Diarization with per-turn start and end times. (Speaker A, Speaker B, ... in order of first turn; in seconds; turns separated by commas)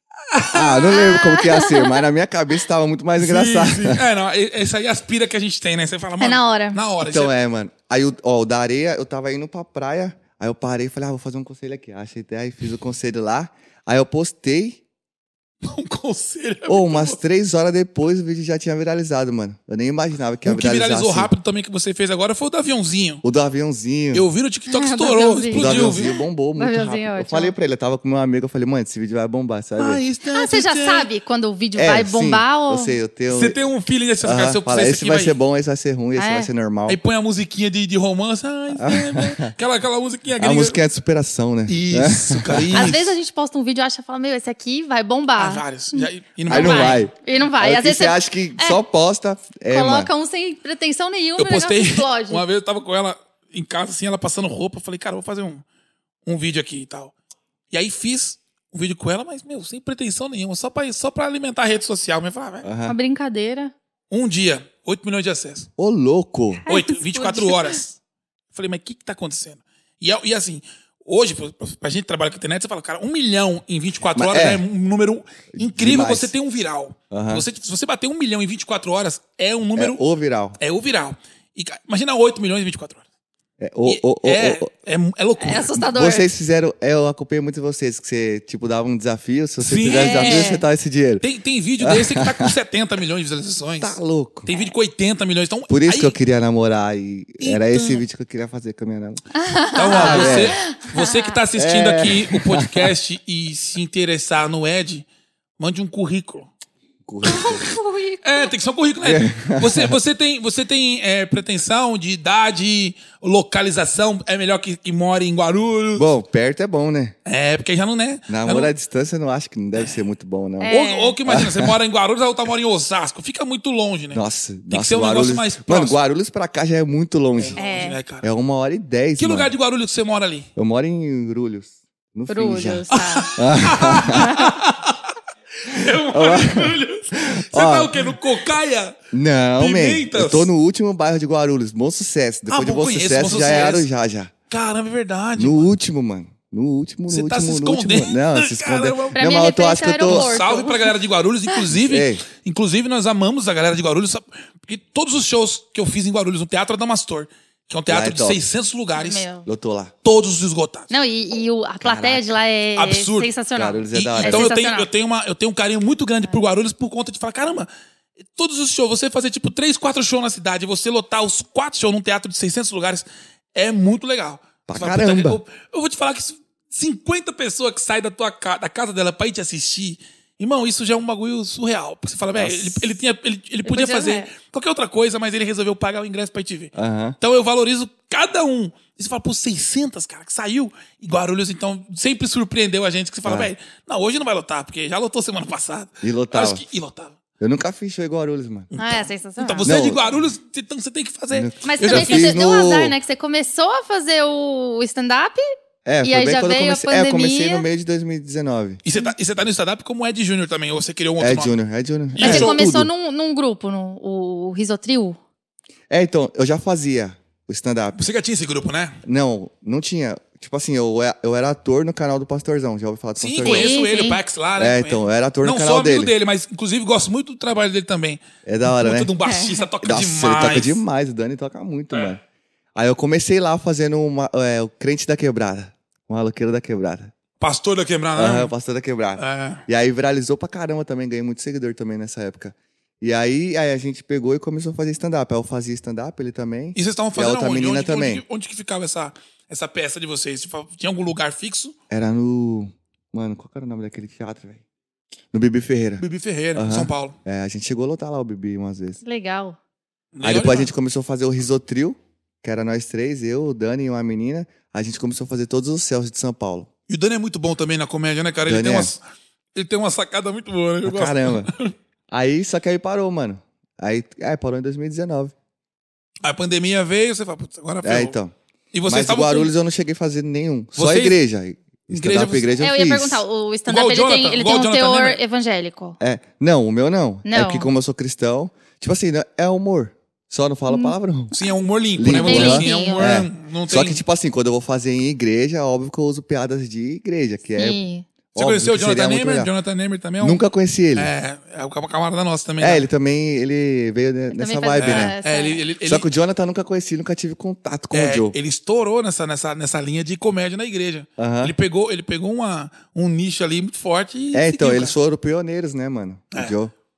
Speaker A: 0.3-1.1, Speaker B: 0.5-4.0, Speaker C: 0.9-2.0, Speaker A: 3.2-7.3, Speaker C: 6.2-6.8, Speaker B: 7.0-14.8, Speaker A: 15.6-17.2, Speaker B: 16.7-21.3, Speaker A: 20.4-23.2, Speaker B: 23.2-24.2, Speaker A: 24.1-26.1, Speaker C: 24.7-27.5, Speaker B: 25.5-30.0, Speaker A: 29.8-31.1, Speaker C: 30.3-32.9, Speaker B: 31.8-33.6, Speaker A: 33.3-35.4, Speaker B: 34.2-37.0, Speaker C: 36.2-36.5, Speaker A: 36.9-40.8, Speaker B: 38.7-39.5, Speaker B: 40.4-43.0, Speaker A: 41.7-43.1, Speaker C: 42.7-48.8, Speaker A: 45.4-47.1, Speaker B: 46.5-50.1, Speaker C: 49.7-52.4, Speaker A: 51.4-55.6, Speaker A: 56.3-57.1, Speaker A: 57.7-62.7, Speaker B: 62.6-63.0, Speaker C: 62.9-63.7, Speaker A: 64.1-65.7, Speaker B: 65.8-66.6, Speaker C: 66.7-67.8, Speaker A: 66.7-68.0, Speaker A: 68.5-80.0, Speaker B: 74.1-74.6, Speaker B: 75.6-76.3, Speaker B: 77.1-77.5, Speaker B: 79.8-80.6, Speaker A: 80.6-83.0, Speaker B: 83.6-84.7, Speaker A: 83.9-85.7, Speaker C: 85.4-86.3, Speaker B: 85.8-91.2, Speaker A: 89.6-90.6, Speaker C: 89.9-90.6, Speaker A: 91.2-94.0, Speaker B: 91.8-92.5, Speaker B: 93.8-94.5, Speaker A: 94.5-96.2, Speaker B: 95.7-99.2, Speaker A: 97.4-98.0, Speaker C: 99.4-101.3, Speaker A: 99.7-105.1, Speaker B: 99.9-100.6, Speaker B: 101.5-102.9, Speaker A: 105.6-106.5, Speaker B: 107.1-107.7, Speaker C: 107.2-108.5, Speaker A: 108.2-116.1, Speaker B: 109.0-110.0, Speaker B: 116.0-117.2, Speaker A: 117.3-118.7, Speaker B: 118.3-121.8, Speaker C: 120.6-121.2, Speaker A: 120.7-126.0, Speaker B: 124.1-127.6, Speaker A: 127.4-128.3, Speaker C: 127.6-128.0, Speaker B: 128.2-129.5, Speaker A: 129.2-130.5, Speaker B: 130.6-134.4, Speaker C: 132.3-133.3, Speaker A: 132.9-138.9, Speaker C: 134.1-134.5, Speaker B: 136.1-138.1, Speaker B: 139.1-144.3, Speaker A: 139.6-140.5, Speaker A: 142.5-143.9, Speaker A: 144.5-145.7, Speaker B: 145.4-150.3, Speaker A: 147.1-149.2, Speaker C: 149.2-150.9, Speaker A: 150.1-159.3, Speaker B: 151.7-152.2, Speaker B: 157.9-158.4, Speaker C: 158.9-159.5, Speaker B: 159.4-159.9, Speaker A: 160.0-160.9, Speaker C: 160.9-164.9, Speaker B: 161.8-162.4, Speaker A: 162.8-163.3, Speaker B: 163.6-164.5, Speaker A: 163.9-167.7, Speaker A: 168.3-197.2, Speaker B: 174.7-175.4, Speaker B: 182.3-182.9, Speaker C: 183.7-184.3, Speaker B: 186.8-187.2, Speaker B: 193.2-193.5, Speaker B: 196.0-196.6, Speaker B: 197.4-198.7, Speaker A: 198.7-202.4, Speaker C: 198.8-199.8, Speaker B: 199.6-200.0, Speaker B: 201.3-203.0, Speaker C: 201.6-205.4, Speaker B: 205.8-208.8, Speaker C: 206.0-207.7, Speaker A: 208.8-211.6, Speaker B: 211.2-212.9, Speaker A: 212.1-212.6, Speaker C: 212.2-215.2, Speaker B: 215.9-218.0, Speaker A: 218.0-219.0, Speaker B: 219.0-223.8, Speaker A: 223.2-230.8, Speaker C: 223.4-224.2, Speaker B: 224.6-226.1, Speaker B: 228.5-229.1, Speaker C: 229.2-229.7, Speaker B: 229.8-232.2, Speaker B: 232.8-237.1, Speaker A: 237.4-238.5, Speaker B: 238.2-248.2, Speaker A: 239.2-239.6, Speaker A: 246.8-251.8, Speaker B: 251.9-254.6, Speaker B: 255.3-256.0, Speaker A: 256.0-257.2, Speaker B: 256.6-259.0, Speaker C: 259.0-259.6, Speaker A: 260.2-260.7, Speaker B: 260.2-266.7, Speaker A: 266.9-269.0, Speaker B: 268.4-268.9, Speaker A: 269.6-271.7, Speaker B: 270.9-271.5, Speaker B: 272.1-275.3, Speaker A: 276.2-278.2, Speaker B: 277.8-278.3, Speaker A: 278.7-279.5, Speaker B: 278.9-283.2, Speaker A: 280.8-281.2, Speaker A: 281.9-282.5, Speaker C: 282.6-286.0, Speaker A: 283.7-285.2, Speaker B: 286.0-291.3, Speaker C: 287.3-287.7, Speaker C: 290.7-290.9, Speaker A: 291.3-294.0, Speaker B: 292.0-297.8, Speaker C: 292.1-293.1, Speaker C: 297.6-298.1, Speaker B: 298.3-299.5, Speaker A: 298.4-300.4, Speaker B: 300.2-301.1, Speaker A: 300.9-302.9, Speaker B: 302.6-305.1, Speaker C: 304.3-305.6, Speaker A: 304.8-306.1, Speaker B: 305.8-308.4, Speaker A: 307.9-314.9, Speaker B: 311.2-311.5, Speaker B: 314.3-316.7